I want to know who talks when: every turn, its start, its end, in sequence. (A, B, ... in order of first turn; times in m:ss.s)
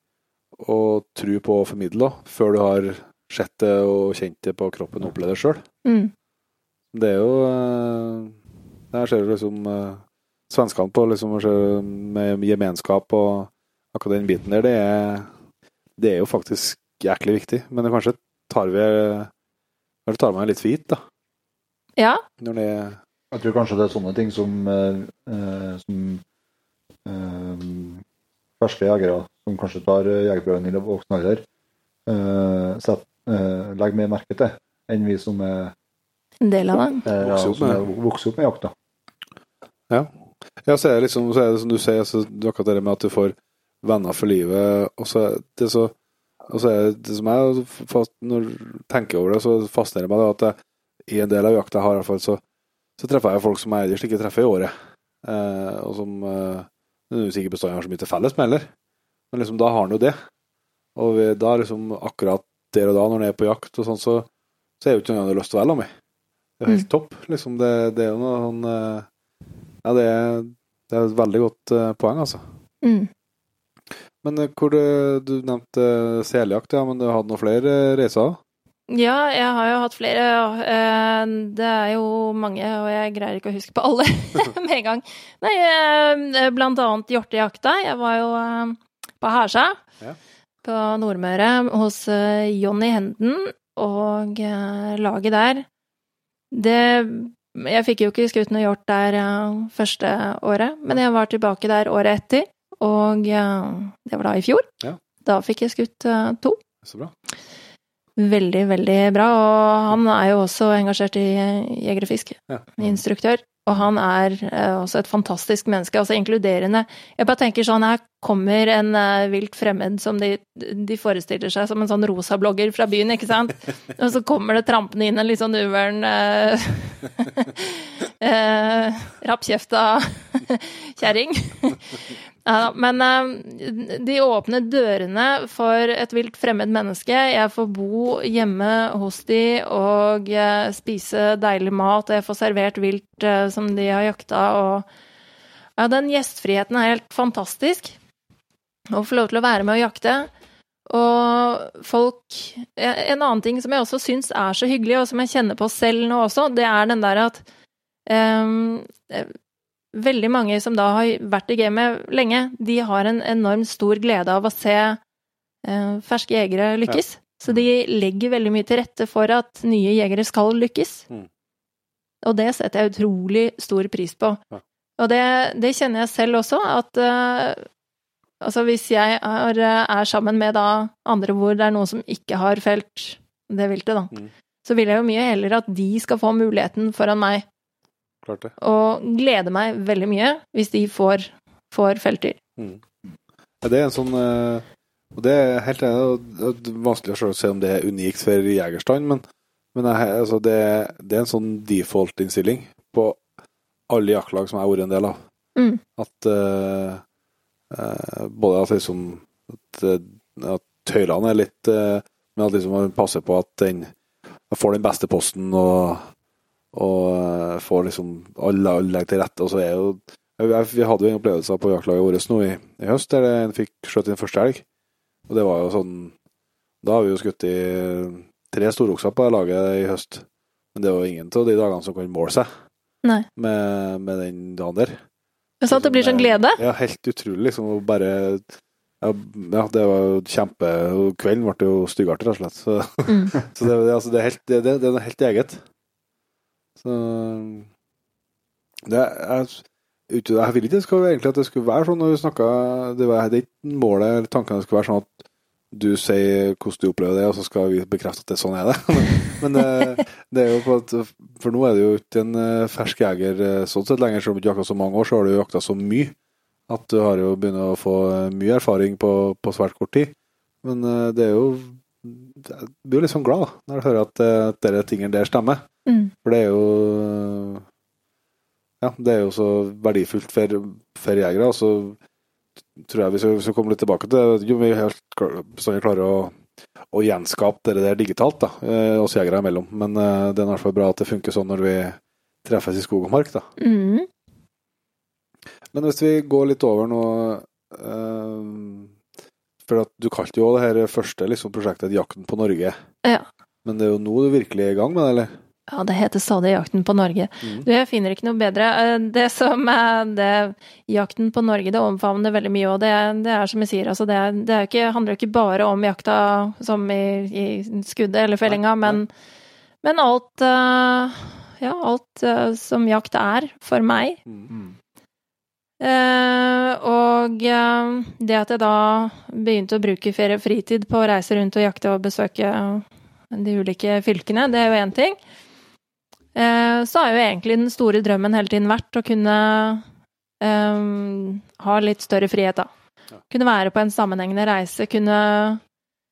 0:00.6-0:05.6 A
0:05.8-0:06.1 B
0:06.9-0:08.4 A
0:08.9-0:15.3 A
0:16.0-0:19.3 A
0:20.1-0:21.0 A
0:22.0-0:22.2 B
0:22.4-0:23.0 A
0:23.3-0:26.2 C
0:27.0-0:28.0 C
0:28.6-0:31.4 C
0:32.1-0:35.7 C
0:36.4-0:37.0 B
0:37.1-0:38.7 C
0:37.2-0:37.8 A
0:40.6-0:45.9 A
0:46.5-0:50.6 A
0:51.1-0:52.4 A
0:53.0-0:54.7 A
0:55.2-0:58.7 A
0:59.3-1:00.2 A
1:01.0-1:04.3 A
1:04.8-1:05.9 A
1:06.6-1:09.1 A
1:09.8-1:12.4 A
1:12.8-1:13.1 B
1:14.2-1:18.4 A
1:18.9-1:29.8 B
1:30.6-1:35.7 B
1:36.5-1:44.7 B
1:45.2-1:46.6 B
1:46.8-1:47.1 A
1:48.2-2:11.9 B
2:12.4-2:24.9 B
2:25.8-2:28.0 B
2:28.9-2:30.3 B
2:30.9-2:37.4 B
2:38.1-2:39.4 B
2:39.9-2:45.0 B
2:45.6-2:51.0 B
2:52.2-2:54.4 B
2:55.0-2:57.7 B
2:58.4-3:04.1 B
3:04.6-3:07.4 B
3:08.2-3:08.5 A
3:08.6-3:12.4 B
3:13.6-3:14.6 A
3:15.2-3:19.2 A
3:19.7-3:23.2 A
3:23.9-3:25.2 A
3:25.6-3:25.8 B
3:26.0-3:27.0 A
3:27.7-3:33.9 A
3:34.5-3:36.1 A
3:36.7-3:44.6 A
3:45.3-3:46.1 A
3:46.8-3:52.5 A
3:53.4-3:55.0 A
3:55.6-3:56.6 B
3:55.7-3:58.4 A
3:59.0-4:05.6 A
4:06.8-4:07.7 A
4:08.9-4:15.1 A
4:15.7-4:26.1 A
4:26.7-4:35.6 A
4:35.9-4:36.1 B
4:36.2-4:37.6 A
4:38.8-4:42.0 A
4:42.8-4:46.4 A
4:46.9-4:53.5 A
4:53.6-4:54.1 B
4:55.7-4:58.9 A
4:59.7-5:02.8 A
5:03.6-5:05.3 A
5:05.7-5:19.1 B
5:18.5-5:19.0 A
5:19.8-5:24.2 B
5:25.8-5:35.2 B
5:36.4-5:39.8 B
5:40.4-5:42.7 B
5:43.3-5:45.6 B